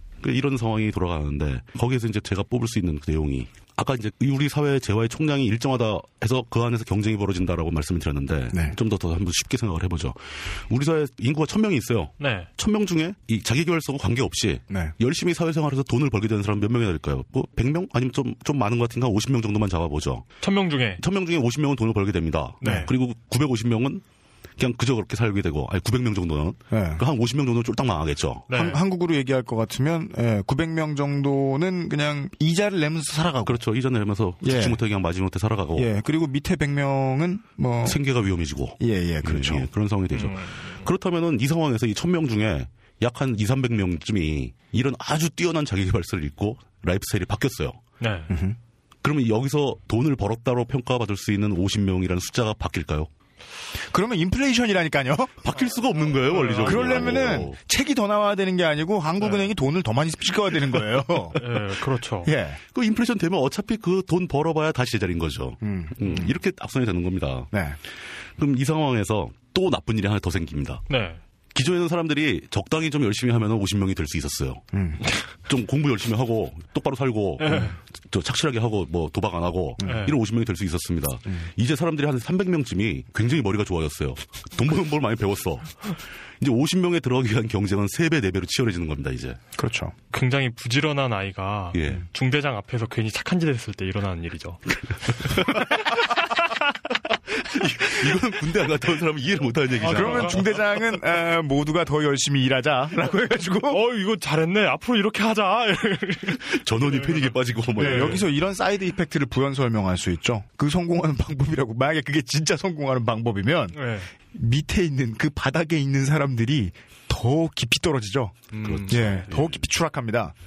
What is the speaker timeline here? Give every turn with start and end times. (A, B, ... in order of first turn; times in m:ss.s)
0:00.2-0:20.3 A
0:12.2-0:12.5 B
0:20.4-0:21.0 B
0:21.0-0:24.0 A
0:22.6-0:22.9 B
0:22.6-0:22.9 C
0:24.6-0:28.5 A
0:26.7-0:27.0 C
0:28.5-0:28.8 B
0:28.5-0:33.6 C
0:33.4-0:35.9 A
0:34.4-0:34.8 C
0:35.8-0:38.0 C
0:37.8-0:47.8 A
0:38.8-0:39.7 C
0:40.1-0:40.8 B
0:48.0-0:48.3 B
0:48.3-0:48.6 C
0:49.0-0:53.1 A
0:53.8-0:55.3 C
0:55.4-0:57.6 A
0:56.1-0:57.4 B
0:56.6-1:01.4 C
1:01.4-1:02.3 B
1:02.2-1:02.6 C
1:02.7-1:07.5 A
1:05.6-1:06.3 C
1:07.5-1:07.8 C
1:08.4-1:10.8 A
1:10.9-1:11.2 B
1:11.5-1:14.6 A
1:14.7-1:15.0 C
1:15.4-1:29.4 A
1:17.4-1:17.8 B
1:19.8-1:20.0 C
1:19.8-1:20.2 B
1:29.6-1:29.9 C
1:30.1-1:36.5 B
1:31.7-1:32.0 A
1:34.7-1:36.3 A
1:37.1-1:40.6 A
1:39.8-1:40.4 B
1:39.9-1:43.8 C
1:43.7-1:48.3 B
1:46.4-1:48.3 A
1:47.8-1:53.8 C
1:53.7-1:54.1 B
1:54.3-2:00.3 C
1:58.5-1:59.3 B
1:58.5-1:59.6 A